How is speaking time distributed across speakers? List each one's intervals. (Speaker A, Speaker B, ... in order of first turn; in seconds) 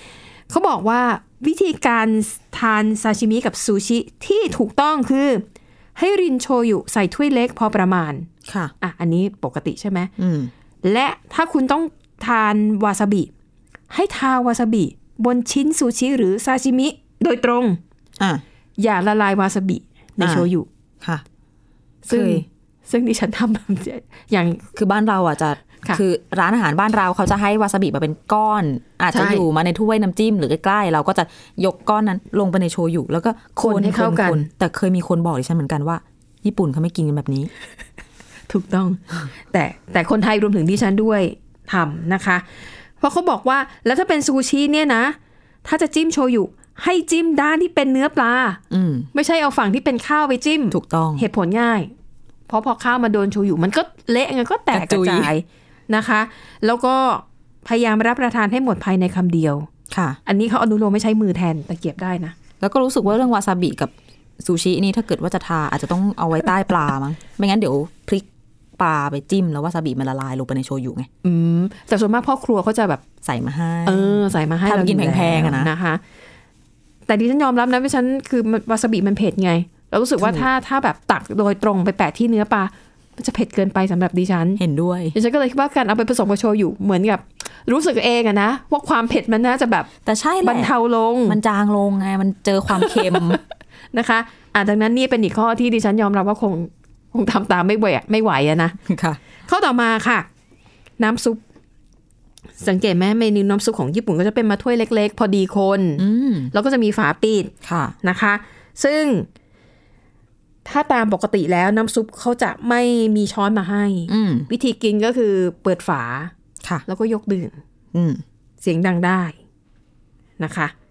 Speaker A: 0.5-8.3, 8.8-10.1, 10.8-13.3, 13.9-17.8, 18.8-20.7, 22.0-24.6, 29.1-29.4, 33.6-34.5, 38.5-42.4, 43.0-48.6, 49.1-51.9, 52.5-59.7, 60.2-62.3, 71.2-73.0, 73.8-76.0, 77.1-84.6, 85.1-89.9, 90.4-91.4, 92.8-93.4, 93.9-98.8, 99.5-100.3, 101.0-101.4, 102.6-109.3, 110.6-116.3, 116.9-117.6, 118.6-119.3, 120.4-120.7
Speaker B: 8.4-8.7, 10.2-10.5, 20.2-20.5, 22.1-22.4, 24.7-37.5, 48.7-49.1, 50.7-51.2, 54.7-55.3, 59.9-60.2, 62.6-68.3, 68.8-71.1, 73.2-75.7, 80.2-80.5, 84.6-85.2, 90.0-90.7, 91.3-93.4, 98.8-99.2, 106.0-106.5, 107.6-108.0, 114.1-114.5, 117.9-118.2